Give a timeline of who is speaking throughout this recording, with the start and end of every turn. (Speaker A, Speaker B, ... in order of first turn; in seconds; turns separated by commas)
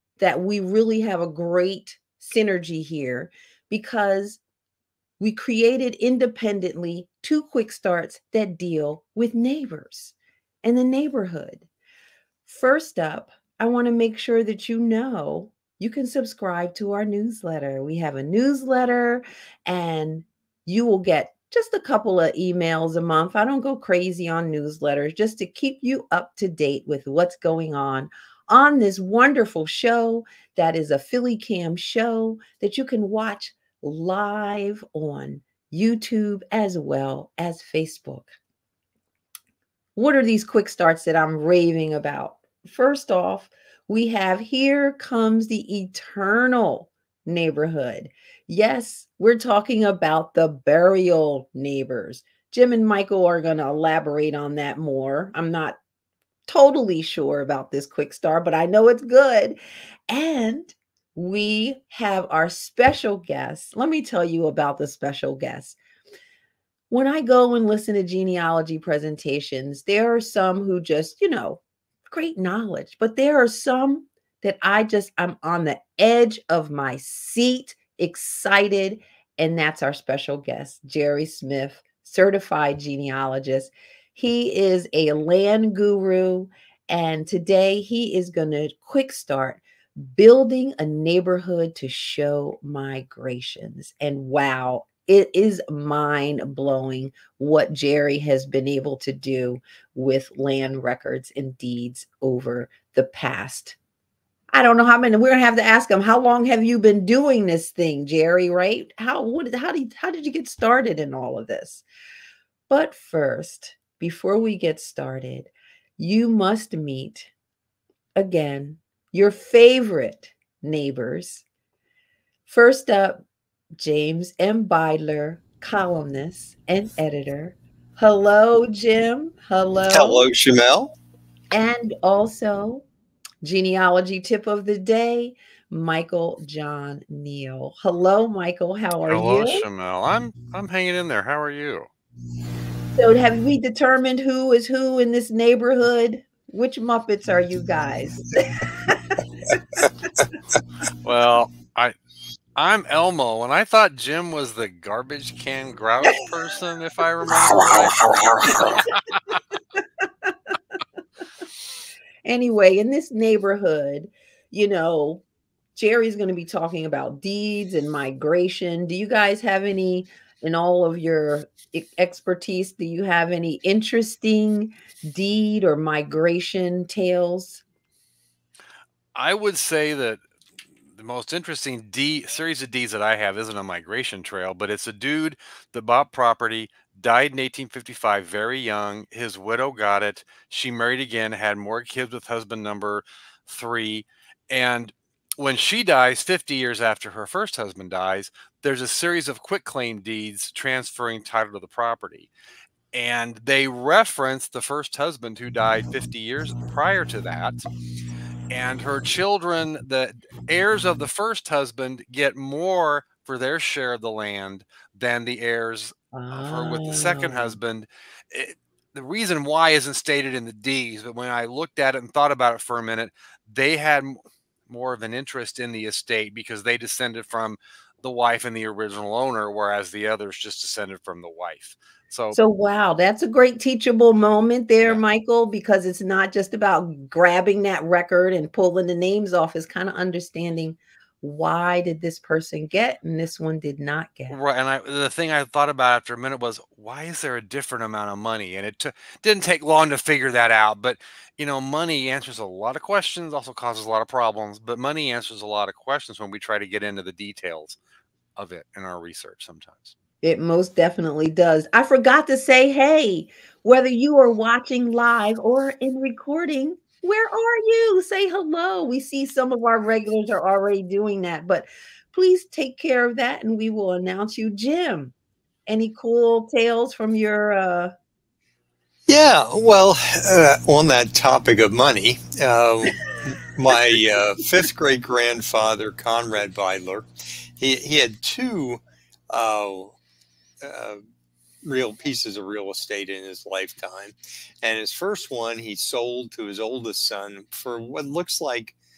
Speaker A: 0.2-4.4, Speaker A: 5.2-11.7, Speaker A: 12.4-38.3, Speaker A: 40.0-55.8, Speaker A: 56.5-59.6, Speaker A: 60.1-65.8, Speaker A: 66.9-103.8, Speaker A: 104.5-111.8, Speaker A: 112.7-117.3, Speaker A: 118.2-121.4, Speaker A: 122.5-123.2, Speaker A: 123.8-130.3, Speaker B: 129.9-130.9, Speaker A: 131.5-132.8, Speaker A: 133.4-139.6, Speaker C: 139.1-141.9, Speaker A: 142.9-148.6, Speaker C: 151.0-151.9, Speaker C: 152.6-159.4, Speaker B: 157.5-158.8, Speaker A: 162.2-165.2, Speaker A: 165.7-177.6, Speaker C: 179.1-180.2, Speaker C: 180.9-202.3, Speaker C: 202.9-207.6, Speaker C: 208.5-232.4, Speaker A: 216.1-217.6, Speaker A: 232.3-244.4, Speaker C: 244.3-257.8, Speaker C: 258.4-259.9, Speaker A: 260.2-275.1, Speaker A: 275.7-277.9, Speaker B: 279.1-289.9, Speaker B: 290.6-291.0, Speaker B: 291.6-298.7